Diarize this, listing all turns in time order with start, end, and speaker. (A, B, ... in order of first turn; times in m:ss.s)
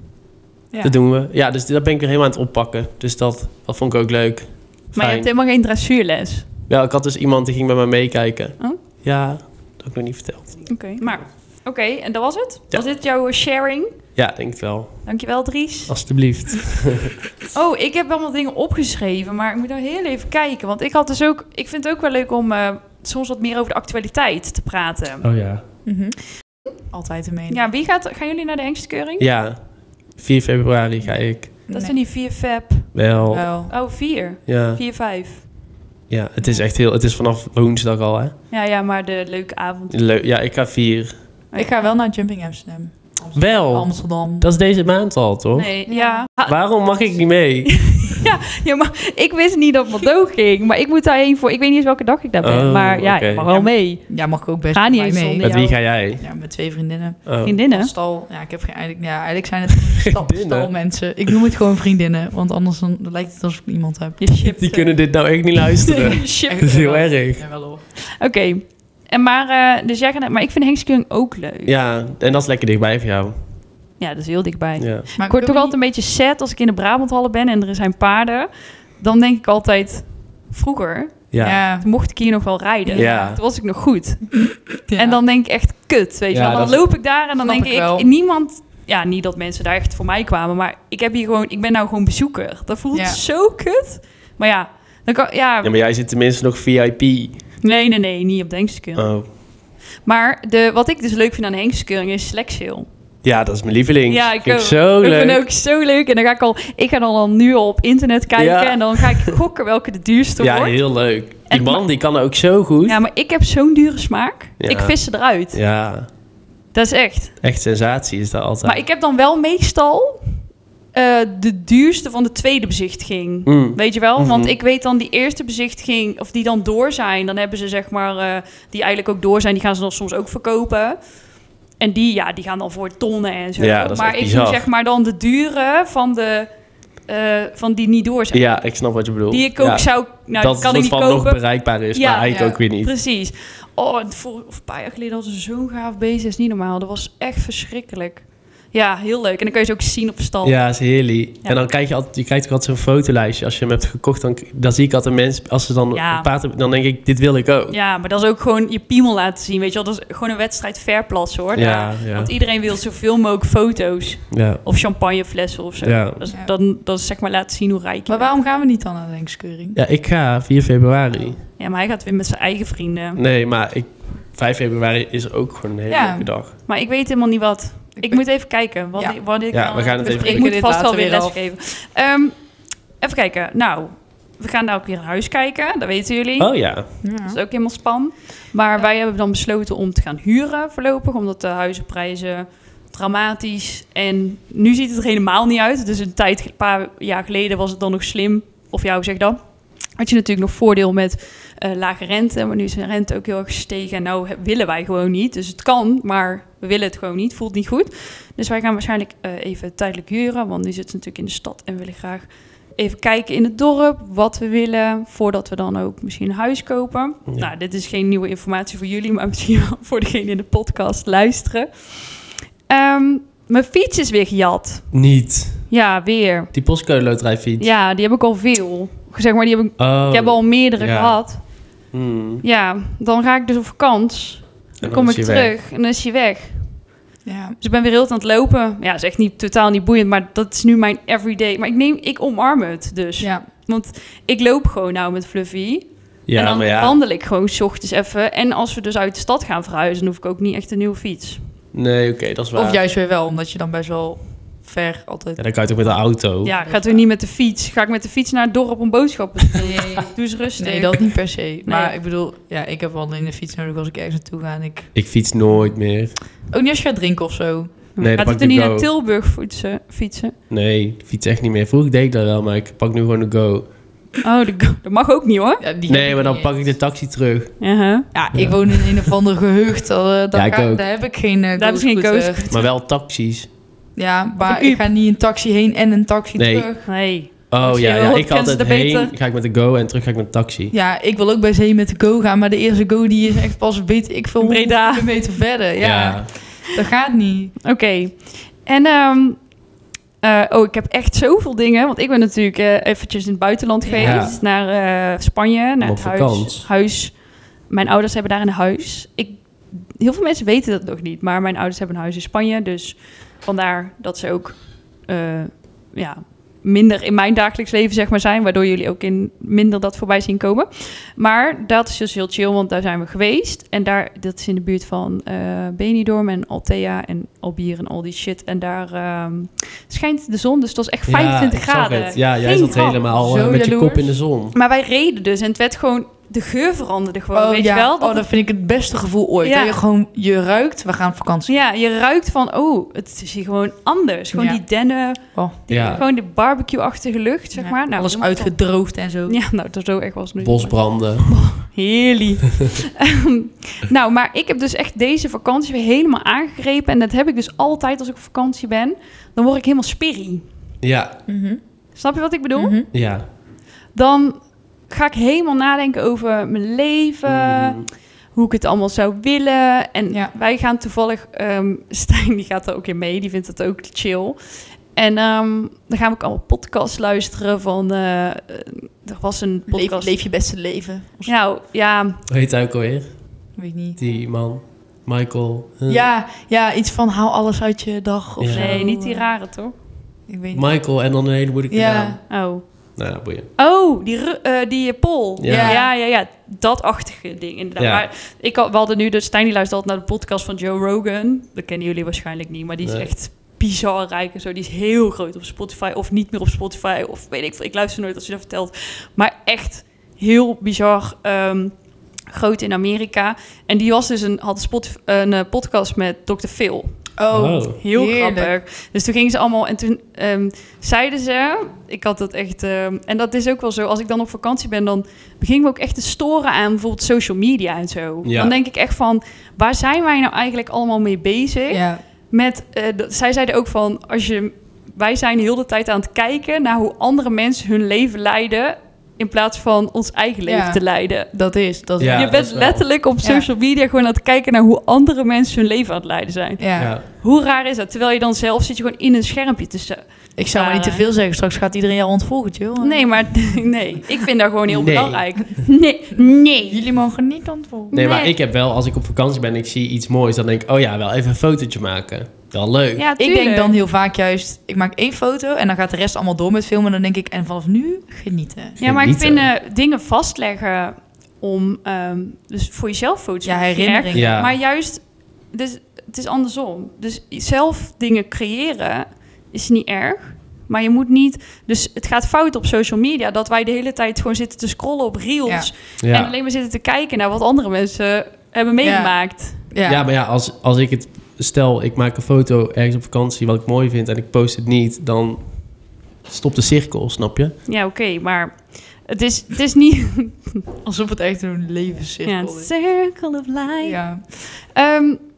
0:00.8-0:05.3 A
0:04.9-0:06.5 B
0:06.7-0:10.8 A
0:10.7-0:14.0 B
0:14.2-0:15.2 A
0:15.0-0:16.0 B
0:15.9-0:17.2 A
0:17.5-0:25.3 B
0:25.2-0:25.6 A
0:25.8-0:27.6 C
0:27.5-0:29.2 B
0:29.2-0:31.5 A
0:31.6-0:35.4 B
0:31.7-0:31.9 C
0:32.9-0:33.5 A
0:33.3-0:33.7 C
0:34.4-0:34.8 A
0:36.1-0:38.3 A
0:38.5-0:40.0 B
0:39.9-0:41.1 A
0:41.5-0:44.5 C
0:43.3-0:45.7 A
0:45.5-0:46.6 B
0:45.9-0:46.2 C
0:46.4-0:48.2 A
0:47.7-0:54.2 B
0:52.4-0:53.6 A
0:53.5-1:04.4 C
0:54.7-0:55.8 B
0:55.4-0:56.2 A
0:57.2-0:57.6 A
0:57.4-0:57.9 B
1:00.0-1:00.7 A
1:04.2-1:05.0 B
1:04.4-1:07.4 A
1:05.9-1:06.9 B
1:06.2-1:07.8 C
1:08.0-1:11.7 B
1:11.6-1:13.3 A
1:14.0-1:35.7 B
1:14.8-1:15.1 A
1:15.2-1:15.7 C
1:21.3-1:21.6 A
1:21.4-1:21.8 C
1:22.9-1:23.4 A
1:24.8-1:25.2 C
1:26.3-1:26.8 A
1:27.4-1:28.1 C
1:32.9-1:33.2 C
1:35.6-1:37.4 A
1:37.6-1:39.1 B
1:38.9-1:39.3 A
1:40.0-1:42.9 B
1:43.2-1:45.4 A
1:44.1-1:50.8 B
1:48.3-1:49.4 A
1:50.4-1:53.0 A
1:51.5-1:51.8 B
1:52.8-1:55.6 B
1:54.6-1:56.1 A
1:56.7-1:57.4 B
1:57.4-1:58.8 A
1:58.6-2:00.4 B
2:00.9-2:11.0 B
2:03.4-2:04.6 A
2:11.8-2:16.5 B
2:13.6-2:14.6 A
2:17.0-2:18.6 B
2:18.3-2:22.9 A
2:19.3-2:30.6 B
2:22.3-2:22.6 C
2:30.4-2:37.8 A
2:35.9-2:36.3 B
2:37.7-2:48.3 B
2:41.5-2:42.3 A
2:44.3-2:44.6 A
2:45.8-2:46.2 A
2:48.1-2:49.8 C
2:49.7-2:51.4 A
2:51.6-2:53.2 B
2:53.2-2:56.5 A
2:55.9-2:56.3 C
2:56.6-3:02.3 B
2:58.0-2:58.2 C
2:59.0-2:59.2 C
2:59.5-3:00.5 A
3:00.0-3:01.4 C
3:03.0-3:19.4 B
3:06.4-3:06.9 A
3:07.0-3:07.4 C
3:20.0-3:45.0 B
3:44.9-3:45.7 A
3:45.7-3:46.5 B
3:46.5-3:47.7 A
3:47.6-3:51.4 B
3:49.8-3:51.2 A
3:51.9-3:52.4 A
3:52.4-3:56.8 B
3:54.8-3:55.5 A
3:57.2-3:57.6 C
3:57.6-4:11.4 B
4:03.2-4:03.4 C
4:06.3-4:07.0 A
4:11.7-4:12.8 A
4:12.5-4:17.0 C
4:15.4-4:16.5 A
4:16.4-4:21.0 B
4:19.6-4:20.0 C
4:20.6-4:25.2 C
4:21.6-4:21.9 B
4:24.9-4:26.2 A
4:26.5-4:27.8 C
4:27.9-4:30.4 B
4:28.0-4:28.9 A
4:30.5-4:33.7 A
4:34.2-4:35.6 B
4:35.6-4:36.7 C
4:35.9-4:37.7 A
4:37.6-4:38.1 B
4:38.1-4:42.5 C
4:38.3-4:39.1 A
4:40.3-4:40.8 A
4:41.6-4:42.7 B
4:42.5-4:43.5 A
4:44.0-4:46.8 C
4:44.4-4:44.8 B
4:46.4-4:50.7 A
4:46.8-4:49.1 B
4:50.7-4:57.6 C
4:54.4-4:55.2 B
4:55.8-4:56.3 A
4:57.6-4:59.4 B
5:00.2-5:33.0 B
5:03.8-5:04.3 C
5:04.0-5:04.4 A
5:05.8-5:06.7 A
5:31.1-5:34.5 A
5:33.1-5:34.1 C
5:34.5-5:38.2 B
5:37.3-5:41.6 C
5:39.4-5:39.8 B
5:41.5-5:48.5 B
5:44.3-5:44.6 C
5:45.1-5:46.0 C
5:45.7-5:46.0 A
5:47.6-5:49.4 C
5:49.3-6:00.4 B
5:50.4-5:51.4 A
6:00.8-6:01.2 A
6:01.3-6:01.6 C
6:01.9-6:03.0 B
6:02.5-6:02.9 C
6:02.9-6:03.2 A
6:03.9-6:14.4 B
6:07.3-6:07.9 A
6:14.9-6:20.1 B
6:19.7-6:21.3 C
6:21.2-6:22.2 B
6:22.3-6:26.0 A
6:23.6-6:24.0 C
6:25.9-6:29.3 C
6:28.4-6:28.8 A
6:28.5-6:29.8 B
6:30.3-6:31.0 C
6:30.5-6:32.4 A
6:31.7-6:32.2 C
6:32.3-6:33.0 B
6:33.0-6:33.5 A
6:33.6-6:51.7 B
6:35.4-6:35.8 A
6:35.5-6:35.9 C
6:37.8-6:38.0 A
6:42.8-6:43.1 A
6:52.3-6:56.9 B
6:57.2-6:58.5 C
6:57.3-6:57.8 A
6:57.8-7:21.3 B
7:08.2-7:08.5 A
7:11.7-7:12.0 C
7:20.4-7:22.4 C
7:22.0-7:22.9 A
7:22.1-7:31.0 B
7:23.2-7:23.5 C
7:26.6-7:26.9 C
7:26.8-7:27.0 A
7:30.4-7:33.7 C
7:32.8-7:36.8 B
7:34.7-7:35.2 A
7:36.7-7:38.0 C
7:37.9-7:38.3 B
7:37.9-7:43.0 A
7:43.0-7:43.8 B
7:43.2-7:48.8 C
7:48.8-7:49.5 A
7:48.8-8:09.6 B
7:53.4-7:54.3 C
7:54.1-7:54.6 A
8:06.0-8:06.3 A
8:08.8-8:10.0 C
8:09.8-8:17.5 A
8:17.6-8:20.6 B
8:20.8-8:22.7 C
8:22.2-8:25.2 B
8:23.8-8:24.2 C